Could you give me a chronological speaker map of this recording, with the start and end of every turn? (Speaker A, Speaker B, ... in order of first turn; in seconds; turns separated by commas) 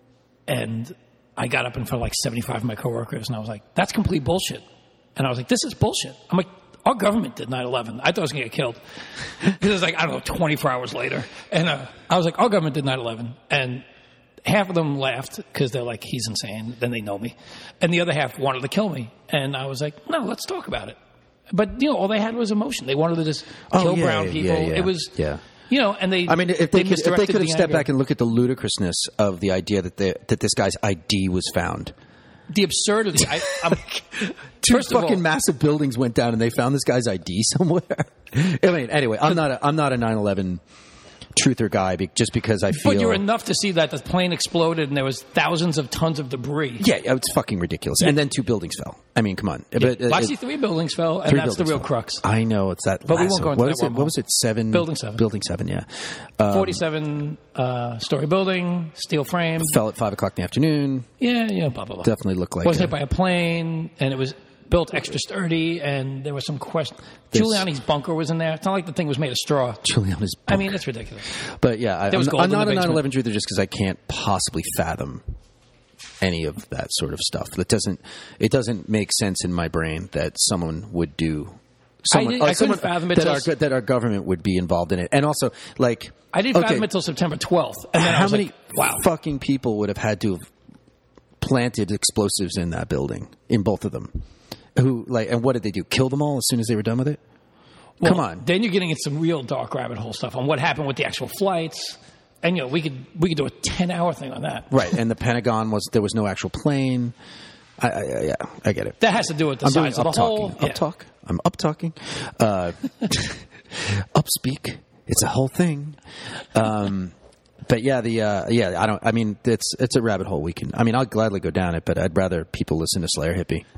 Speaker A: 0.5-4.6, Speaker A: 5.2-8.8, Speaker A: 9.4-13.8, Speaker A: 14.4-21.0, Speaker A: 21.5-25.1, Speaker B: 23.7-25.4, Speaker A: 25.7-27.9, Speaker B: 26.3-31.9, Speaker A: 32.5-33.9, Speaker B: 33.5-40.6, Speaker A: 34.7-35.2, Speaker B: 41.4-43.2, Speaker A: 42.7-46.9, Speaker B: 46.8-50.4, Speaker A: 49.8-52.2, Speaker B: 51.3-56.8, Speaker A: 53.1-54.1, Speaker A: 54.7-55.2, Speaker A: 56.5-59.8, Speaker B: 59.6-61.1, Speaker A: 61.2-62.1, Speaker B: 62.0-62.9, Speaker A: 62.6-69.8, Speaker B: 67.3-67.6, Speaker B: 69.8-70.8, Speaker A: 70.5-71.3, Speaker B: 71.4-75.2, Speaker A: 72.1-73.0, Speaker B: 76.2-86.9, Speaker A: 82.1-83.5, Speaker A: 86.3-89.0, Speaker B: 87.9-90.4, Speaker B: 91.4-94.2, Speaker B: 94.8-97.2, Speaker B: 98.0-98.4, Speaker A: 98.0-104.7, Speaker B: 104.7-107.1, Speaker B: 107.8-109.0, Speaker A: 109.0-110.8, Speaker B: 109.6-116.0, Speaker B: 116.5-117.1, Speaker B: 117.7-123.7